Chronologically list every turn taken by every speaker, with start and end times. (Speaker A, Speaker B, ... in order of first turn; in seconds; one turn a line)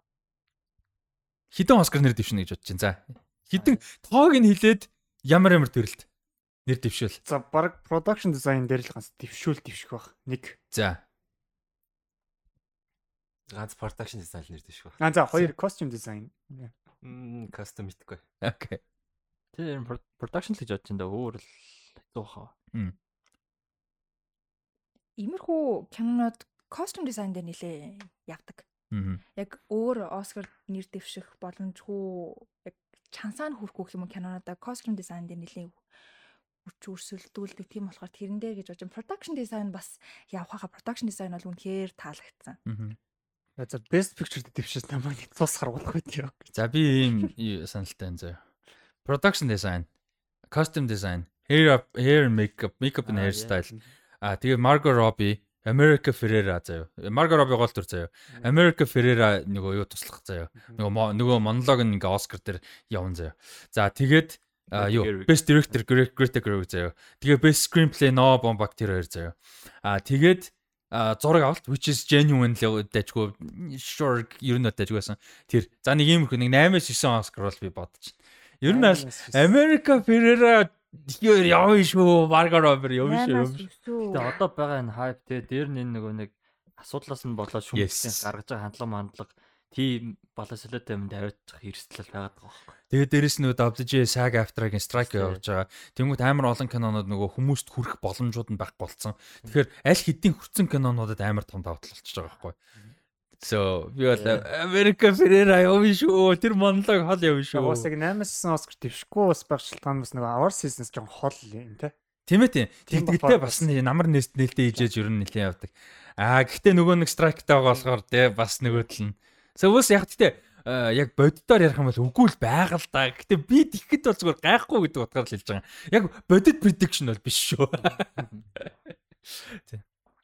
Speaker A: 1.5-6.1
Speaker B: 3.5-3.8
Speaker A: 6.7-7.2
Speaker C: 7.2-10.6
Speaker A: 10.7-11.0
Speaker D: 13.5-15.0
Speaker C: 15.0-16.7
Speaker D: 17.0-18.2
Speaker A: 18.4-18.8
Speaker B: 19.5-22.5
Speaker E: 25.2-28.6
Speaker A: 28.9-29.2
Speaker E: 29.4-35.8
Speaker E: 36.6-42.6
Speaker A: 42.6-43.0
Speaker C: 43.6-47.3
Speaker A: 46.5-48.4
Speaker A: 49.0-49.9
Speaker A: 50.5-83.7
Speaker B: 53.0-53.8
Speaker B: 64.7-65.7
Speaker C: 78.6-79.5
Speaker E: 83.0-84.4
Speaker B: 84.1-92.8
Speaker A: 87.7-88.3
Speaker A: 92.9-102.6
Speaker B: 95.0-95.4
Speaker A: 103.4-107.9
Speaker B: 104.1-104.4
Speaker C: 107.5-111.9
Speaker A: 112.3-128.7
Speaker C: 112.9-113.7
Speaker A: 129.3-129.8